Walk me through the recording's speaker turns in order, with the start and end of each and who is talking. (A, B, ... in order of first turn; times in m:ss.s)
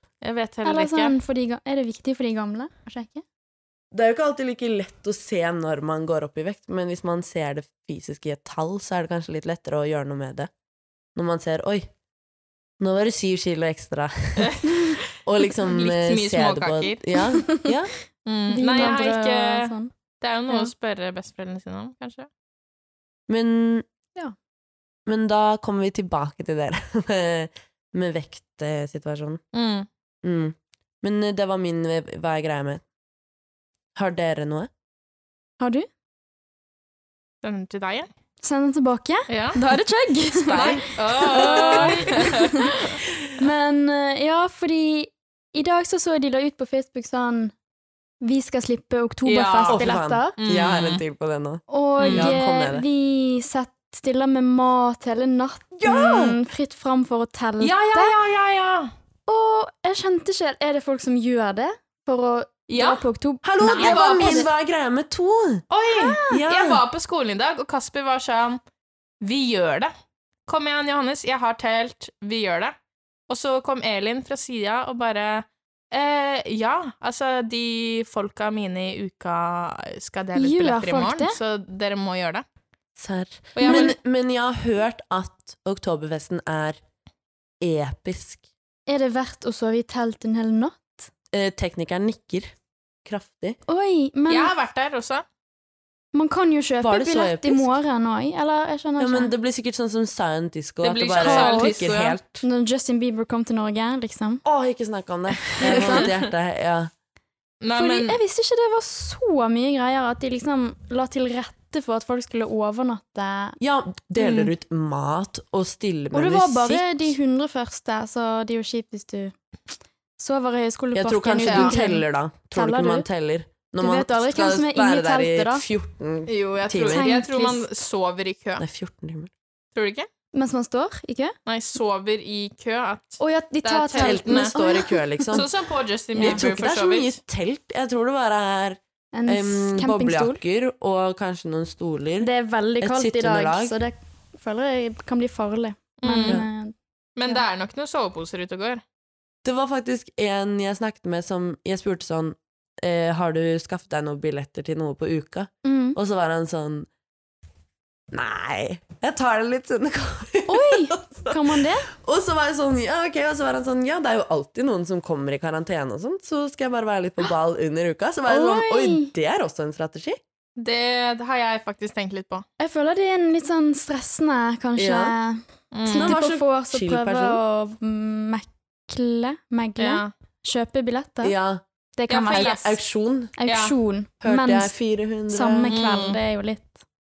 0:00.2-0:01.1 A
0:00.6-0:03.2 B
0:03.9-0:10.5 C
0:11.2-0:11.9 C
0:12.8-0:14.6 C
0:14.4-0:15.0 A
0:15.2-0:17.9 C
0:15.6-0:17.1 A
0:18.3-0:22.3 A
0:18.5-0:19.9 B
0:23.3-0:23.9 C
0:25.1-0:29.4 C
0:29.5-0:29.9 A
0:30.2-0:32.8 C
0:34.0-0:34.7 C
0:35.6-0:35.9 B
0:37.4-0:38.1 A
0:38.4-0:42.6 B
0:39.3-0:39.6 A
0:40.4-0:42.1 C
0:40.5-0:42.8 A
0:43.4-0:47.5 B
0:48.2-0:50.4 B
0:49.3-0:49.9 A
0:49.7-0:52.8 C
0:50.4-0:51.0 A
0:51.7-0:58.2 B
0:52.0-0:52.4 A
0:55.8-0:56.4 C
0:57.6-0:58.9 A
0:59.3-1:04.5 B
1:02.7-1:03.0 A
1:03.4-1:05.6 C
1:03.7-1:04.5 A
1:05.7-1:08.6 A
1:05.9-1:06.4 B
1:06.3-1:06.8 C
1:09.2-1:09.9 A
1:10.5-1:12.8 A
1:13.3-1:22.4 A
1:20.4-1:21.4 B
1:23.0-1:26.8 C
1:23.6-1:24.0 A
1:23.6-1:23.9 B
1:27.6-1:28.4 C
1:28.9-1:31.1 B
1:31.3-1:32.5 C
1:33.0-1:33.6 C
1:33.7-1:34.5 B
1:34.3-1:35.2 A
1:36.1-1:39.3 B
1:36.8-1:37.7 C
1:39.0-1:42.4 C
1:40.8-1:42.2 A
1:41.2-1:41.8 B
1:42.4-1:44.4 B
1:44.4-1:46.9 C
1:45.6-1:46.2 A
1:45.6-1:46.1 B
1:47.6-1:48.2 A
1:47.7-1:53.6 B
1:53.6-1:57.1 C
1:56.1-1:59.4 B
2:00.2-2:03.0 B
2:00.9-2:07.1 C
2:01.4-2:01.8 A
2:03.8-2:05.6 B
2:06.3-2:08.6 A
2:06.9-2:07.7 B
2:08.6-2:09.3 C
2:09.8-2:10.1 A
2:10.3-2:11.3 B
2:11.5-2:14.5 A
2:13.2-2:15.4 B
2:14.0-2:15.5 C
2:15.3-2:17.2 A
2:16.2-2:16.4 B
2:16.2-2:22.3 C
2:19.1-2:20.4 B
2:22.2-2:26.8 B
2:22.8-2:23.8 C
2:26.0-2:26.4 A
2:27.2-2:28.8 A
2:29.4-2:36.9 C
2:35.6-2:36.0 B
2:38.1-2:50.2 C
2:40.5-2:41.9 B
2:48.3-2:49.1 B
2:50.6-2:52.5 A
2:52.6-3:01.4 B
2:54.8-2:55.2 C
2:55.7-2:56.2 A
2:55.9-2:57.4 C
2:59.8-3:00.1 A
3:01.2-3:01.6 C
3:02.0-3:02.6 B
3:02.1-3:02.8 A
3:02.3-3:03.3 C
3:03.4-3:04.7 B
3:03.5-3:03.8 A
3:04.2-3:05.8 C
3:05.3-3:06.8 B
3:05.7-3:06.2 A